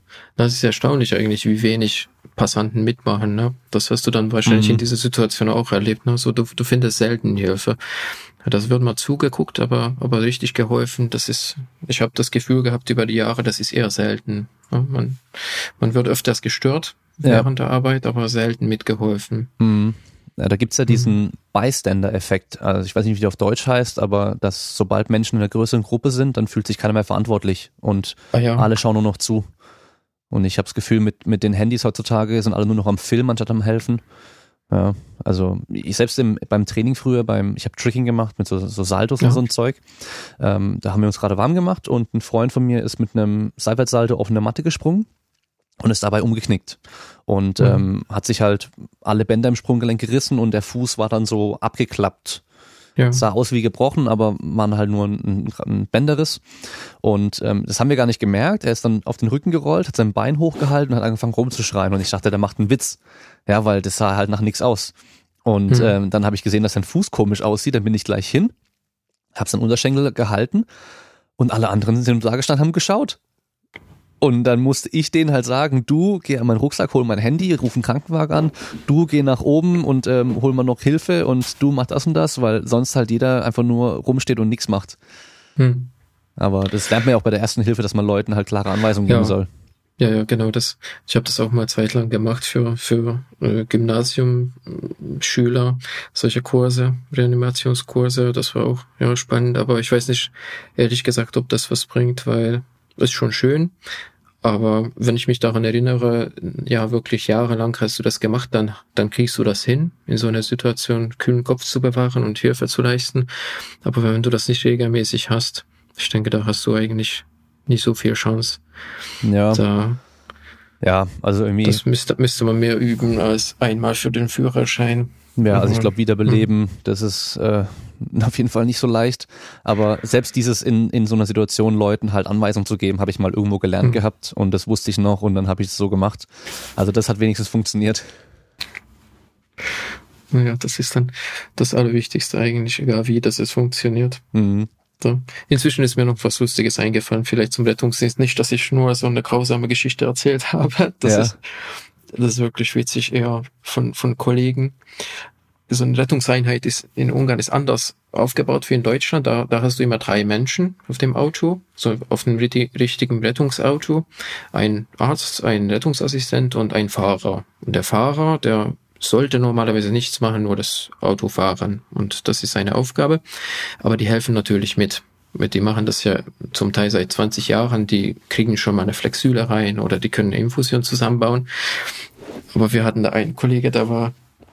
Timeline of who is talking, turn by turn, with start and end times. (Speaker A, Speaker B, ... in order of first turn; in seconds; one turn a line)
Speaker A: 0.4-19.5
Speaker B: 4.5-4.8
Speaker B: 17.2-17.5
Speaker B: 19.6-29.5
Speaker A: 20.9-21.1
Speaker A: 28.3-28.7
Speaker B: 30.3-34.0
Speaker B: 34.7-45.1
Speaker B: 45.8-52.4
Speaker A: 47.6-47.9
Speaker A: 53.0-53.2
Speaker B: 53.1-56.4
Speaker B: 57.0-64.9
Speaker B: 65.5-68.5
Speaker A: 65.7-66.0
Speaker B: 69.3-70.7
Speaker B: 71.4-73.2
Speaker B: 74.2-85.0
Speaker A: 85.6-85.9
Speaker B: 86.4-89.5
Speaker A: 89.1-89.3
Speaker A: 90.0-103.7
Speaker A: 104.4-113.3
Speaker A: 113.8-118.6
Speaker B: 119.2-119.6
Speaker A: 119.5-120.0
Speaker B: 120.8-121.8
Speaker A: 121.6-126.5
Speaker B: 125.4-138.1
Speaker A: 140.3-144.2
Speaker B: 144.3-144.7
Speaker A: 145.0-154.8
Speaker B: 151.0-151.3
Speaker A: 155.7-173.2
Speaker A: 173.8-181.9
Speaker A: 182.5-184.2